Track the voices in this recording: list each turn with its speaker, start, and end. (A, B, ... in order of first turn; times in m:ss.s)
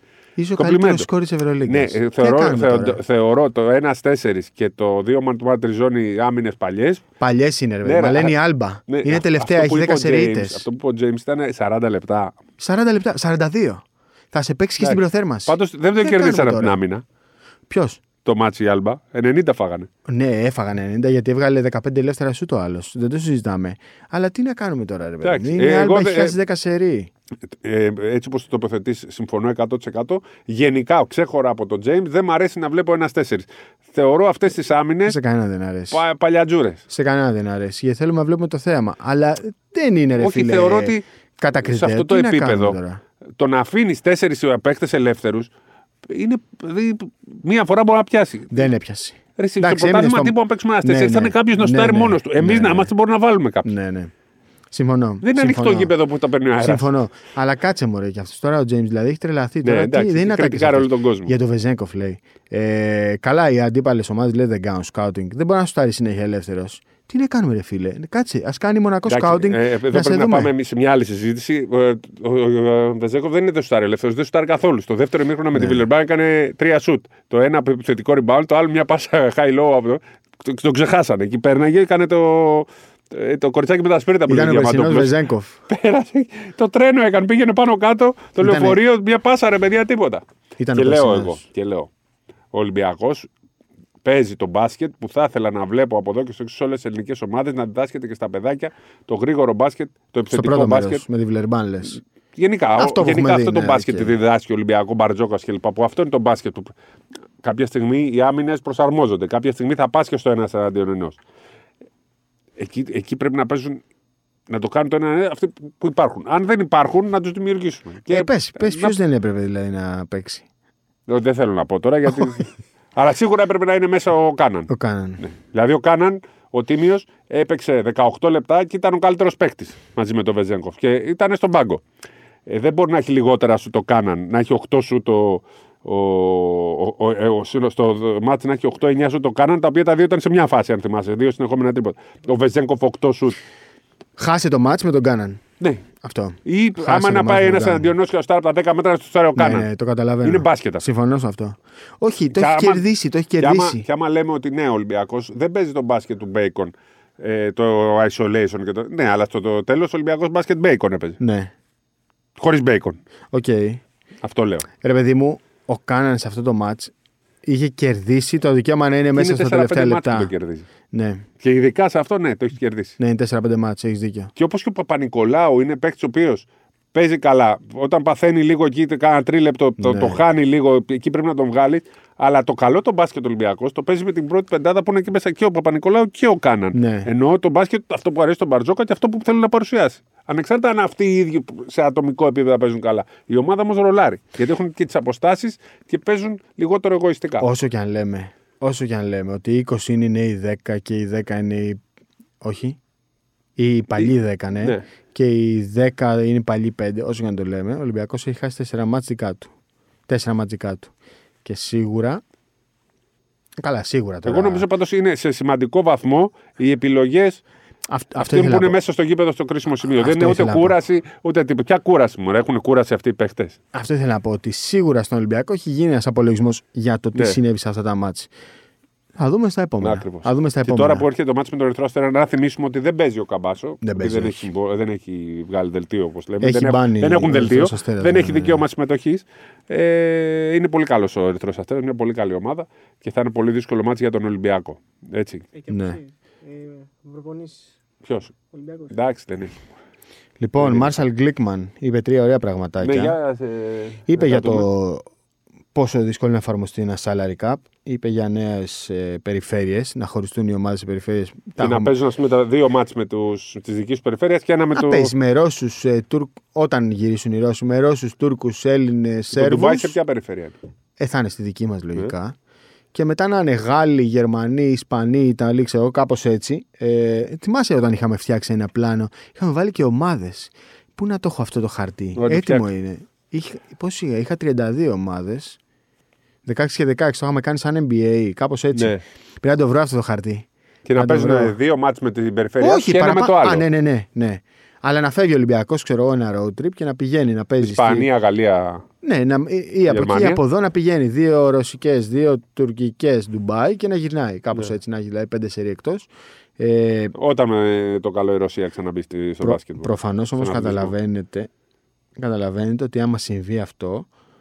0:00.4-0:03.0 A
0:00.6-0:01.1 B
0:01.7-0:07.0 B
0:07.2-0:10.7 A
0:07.8-0:08.4 B
0:08.9-0:12.4 B
0:12.6-0:16.8 A
0:14.8-0:17.0 B
0:17.7-0:18.0 A
0:18.2-0:19.9 B
0:20.1-0:27.1 A
0:25.2-0:26.4 B
0:27.5-0:35.2 B
0:35.1-0:36.0 A
0:35.9-0:36.8 B
0:36.9-0:43.0 A
0:40.2-0:41.0 B
0:41.6-0:42.8 B
0:43.4-0:45.5 B
0:46.1-0:48.7 B
0:48.5-0:52.9 A
0:49.4-0:53.7 B
0:53.6-0:54.1 A
0:54.7-0:55.9 A
0:55.2-0:56.9 B
0:56.6-1:10.5 A
0:59.6-1:01.3 B
1:09.1-1:25.2 B
1:15.5-1:15.9 A
1:24.3-1:25.6 A
1:25.7-1:31.9 B
1:28.4-1:28.8 A
1:30.6-1:31.4 A
1:32.5-1:33.3 B
1:34.0-1:41.0 B
1:40.3-1:42.0 A
1:42.4-1:46.7 B
1:42.8-1:44.2 A
1:47.4-1:51.2 B
1:52.6-1:53.8 B
1:54.5-1:59.0 B
1:58.1-2:00.4 A
2:01.1-2:11.8 B
2:04.7-2:05.2 A
2:12.5-2:23.4 B
2:24.2-2:25.4 A
2:25.6-2:25.8 B
2:26.0-2:27.9 A
2:26.4-2:29.7 B
2:29.4-2:33.8 A
2:30.2-2:30.9 B
2:32.3-2:32.8 B
2:33.4-2:41.2 B
2:41.2-2:41.5 A
2:42.4-2:43.0 B
2:43.3-2:43.8 A
2:44.2-2:44.7 B
2:44.8-2:46.9 A
2:47.4-2:50.3 A
2:49.1-2:50.7 B
2:50.9-2:51.3 A
2:51.4-2:53.0 B
2:53.0-2:54.3 A
2:54.4-3:17.5 B
2:59.8-3:00.2 A
3:06.7-3:07.1 A
3:17.4-3:21.8 A
3:22.4-3:22.8 A
3:23.6-3:29.5 A
3:30.1-3:30.9 A
3:31.4-3:32.2 A
3:33.6-3:34.7 A
3:34.2-3:37.4 B
3:37.9-3:38.8 A
3:38.2-3:43.6 B
3:39.9-3:40.8 A
3:43.7-3:48.3 A
3:47.2-3:47.4 B
3:49.2-3:51.1 A
3:49.8-4:05.5 B
3:53.8-3:54.5 A
3:56.4-3:58.6 A
4:05.6-4:07.8 C
4:05.7-4:06.0 A
4:08.0-4:08.3 B
4:08.5-4:08.9 C
4:08.9-4:09.6 B
4:10.4-4:13.2 A
4:10.6-4:11.0 B
4:12.8-4:14.7 B
4:14.1-4:15.1 A
4:15.7-4:21.9 A
4:21.6-4:25.1 B
4:24.7-4:30.0 A
4:29.3-4:30.6 B
4:31.0-4:32.4 A
4:32.9-4:45.6 A
4:42.2-4:42.7 B
4:46.4-4:51.6 A
4:48.7-4:49.0 B
4:50.9-4:53.6 B
4:52.6-4:58.1 A
4:57.6-4:58.8 B
4:59.0-5:07.1 A
4:59.9-5:00.4 B
5:07.1-5:10.9 B
5:09.4-5:11.5 A
5:12.2-5:14.1 A